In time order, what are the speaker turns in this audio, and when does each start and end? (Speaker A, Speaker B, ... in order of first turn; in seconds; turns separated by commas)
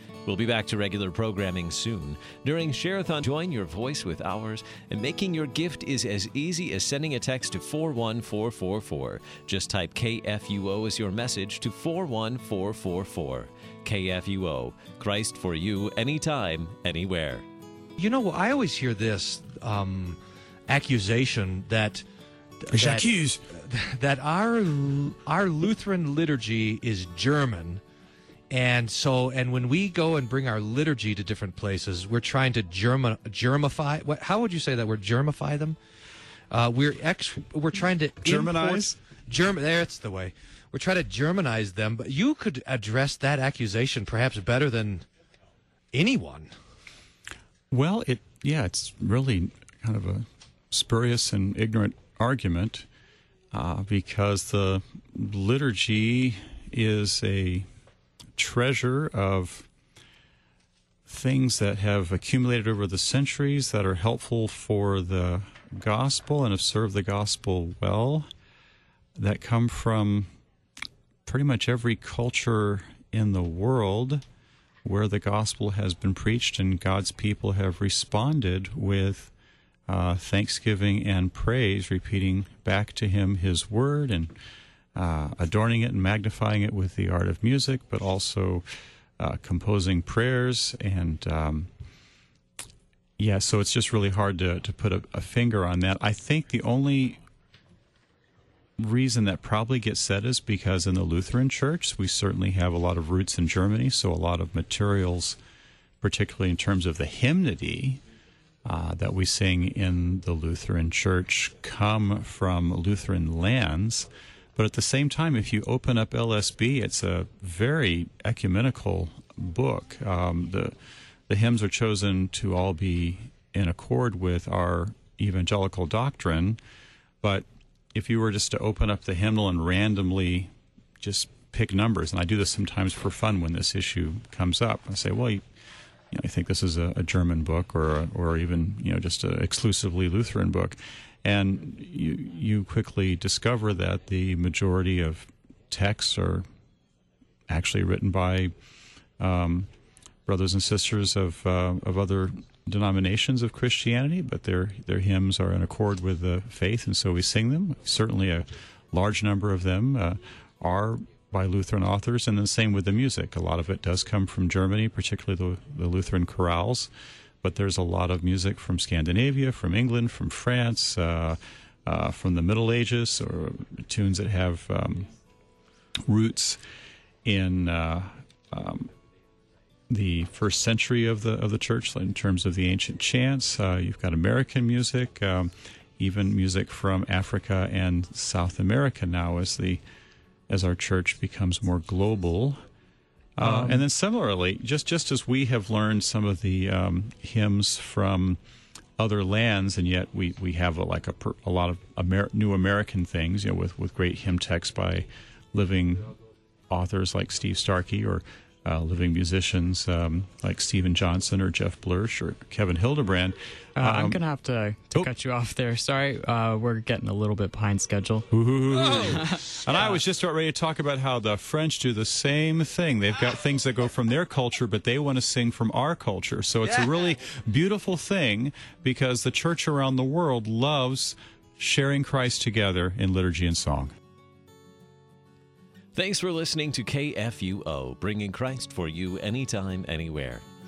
Speaker A: 0.2-17.4, Speaker B: 18.0-22.0, Speaker B: 22.6-27.8, Speaker C: 22.7-23.4, Speaker B: 28.5-35.8, Speaker B: 36.5-45.0, Speaker C: 38.2-39.0, Speaker B: 45.9-46.5, Speaker C: 47.7-52.9, Speaker C: 53.5-57.6, Speaker C: 58.4-59.7, Speaker C: 61.1-68.2, Speaker C: 69.2-70.3, Speaker C: 71.2-74.2, Speaker C: 74.8-79.3, Speaker C: 79.9-84.3, Speaker C: 85.0-88.6, Speaker C: 89.2-91.7, Speaker C: 93.2-97.2, Speaker C: 98.8-105.4, Speaker C: 106.0-108.0, Speaker C: 108.6-120.7, Speaker C: 121.3-126.6, Speaker C: 127.9-130.5, Speaker C: 131.0-135.4, Speaker C: 136.1-146.4, Speaker C: 147.5-148.5, Speaker C: 149.2-149.7, Speaker C: 150.2-166.9, Speaker C: 167.4-175.1, Speaker C: 176.1-176.6, Speaker C: 177.2-178.9, Speaker C: 179.9-189.8, Speaker C: 190.5-192.6, Speaker C: 193.4-198.4, Speaker D: 193.4-193.8, Speaker C: 199.0-206.1, Speaker C: 206.7-214.2, Speaker D: 213.8-218.2, Speaker C: 218.3-233.9, Speaker B: 218.8-219.1, Speaker D: 219.1-219.5, Speaker A: 235.9-240.4